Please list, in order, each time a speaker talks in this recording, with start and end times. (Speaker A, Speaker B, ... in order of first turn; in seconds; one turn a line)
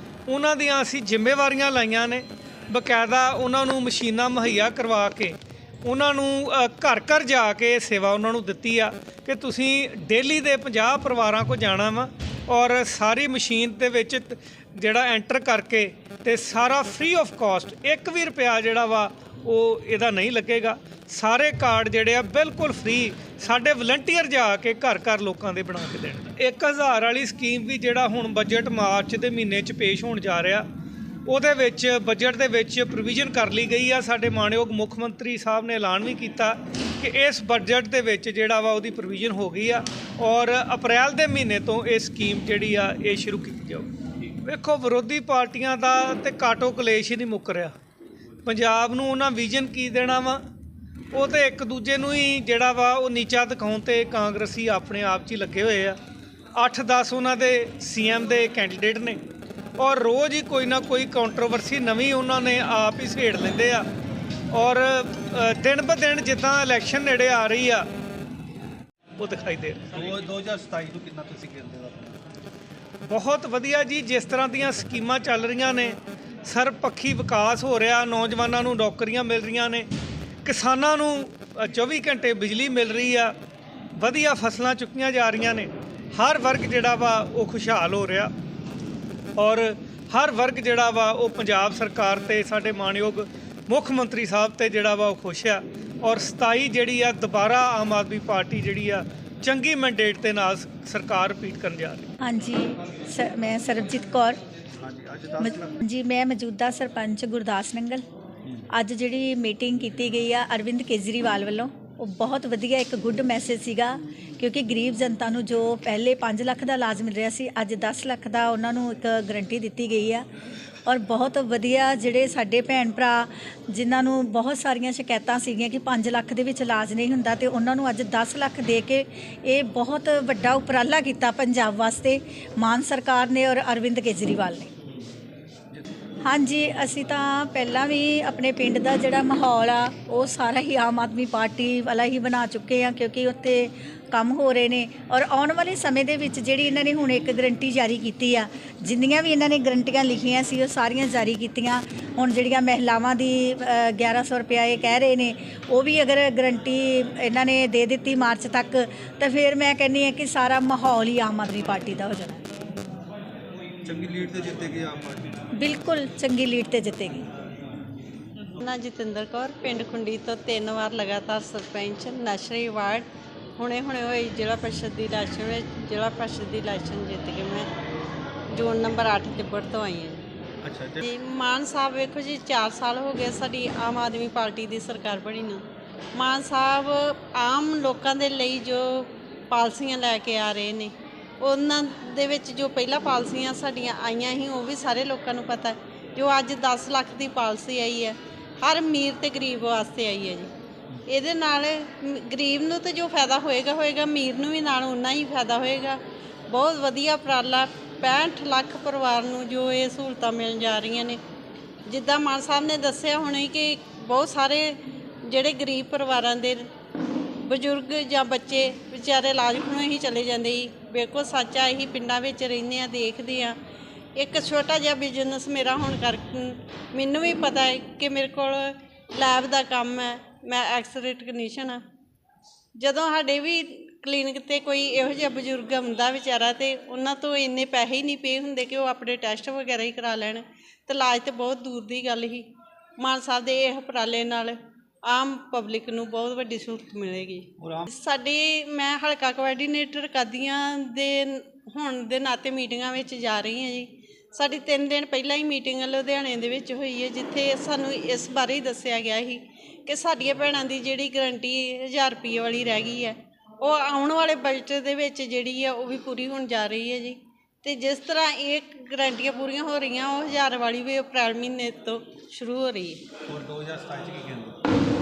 Speaker A: 0.3-30.6
Speaker A: 31.2-47.7
Speaker A: 48.4-50.4
Speaker A: 51.1-56.0
Speaker A: 56.5-59.2
Speaker A: 59.8-63.9
Speaker A: 64.5-67.9
Speaker A: 69.2-70.2
Speaker B: 69.9-72.2
Speaker A: 73.0-79.9
Speaker A: 80.4-83.3
Speaker A: 84.0-88.3
Speaker A: 89.4-102.1
Speaker C: 102.2-104.4
Speaker B: 104.8-105.7
Speaker C: 105.4-108.0
Speaker C: 108.7-120.2
Speaker C: 120.9-134.7
Speaker C: 136.2-162.5
Speaker B: 163.8-165.4
Speaker C: 165.6-167.3
Speaker D: 168.6-173.0
Speaker D: 173.6-177.7
Speaker D: 178.5-180.2
Speaker B: 180.6-181.1
Speaker D: 181.0-185.6
Speaker D: 186.1-200.5
Speaker D: 201.1-211.2
Speaker D: 211.9-216.7
Speaker D: 217.4-223.6
Speaker D: 224.2-231.8
Speaker D: 232.8-242.5
Speaker D: 243.0-273.0
Speaker B: 247.6-247.8
Speaker B: 273.3-274.6